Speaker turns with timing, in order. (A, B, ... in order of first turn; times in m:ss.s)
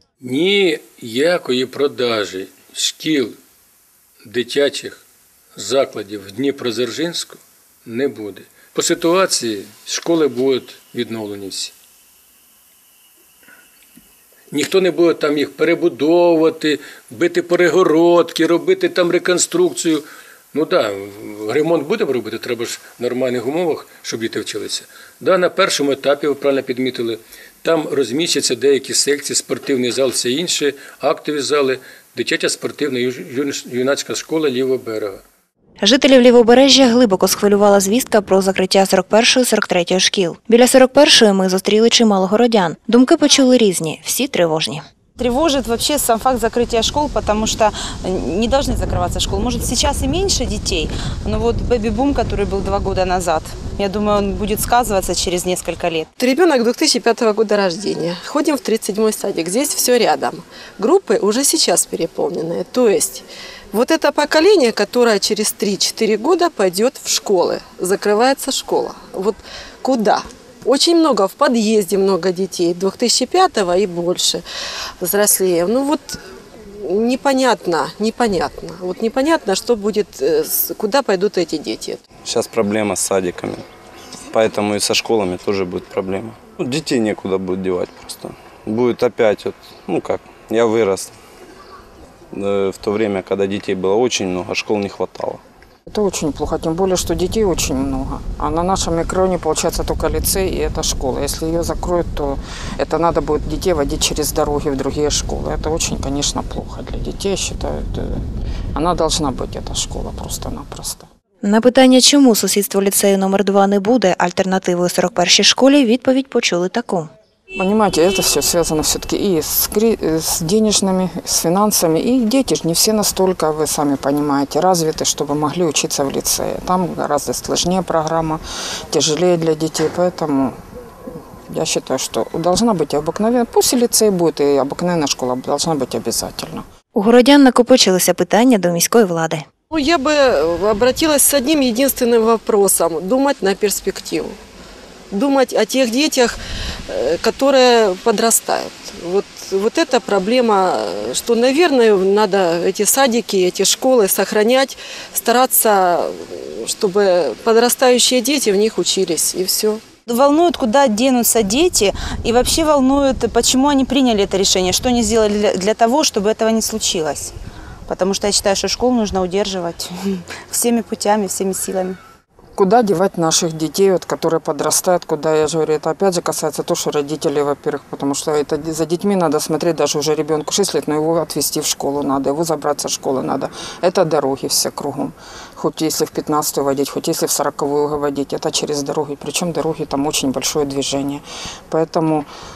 0:00.2-0:03.3 A
0:04.2-0:05.0 A
0:05.6-0:11.7 A
0:14.5-0:35.2 A
0:35.8-0:44.8 B
0:45.2-0:56.1 C
0:56.2-1:14.4 D
1:15.0-1:16.2 D
1:16.8-1:22.0 D
1:22.2-1:23.6 E
1:24.3-1:31.1 E
1:32.3-1:35.4 E
1:35.9-1:48.2 F
1:48.7-1:51.1 F
1:51.4-1:57.1 B
1:57.5-2:10.5 F
2:11.5-2:16.6 F
2:16.9-2:19.4 B
2:19.7-2:24.3 D
2:25.1-2:39.8 D
2:40.1-2:47.3 C
2:47.9-2:49.9 C
2:50.4-2:52.0 C
2:52.6-3:12.3 F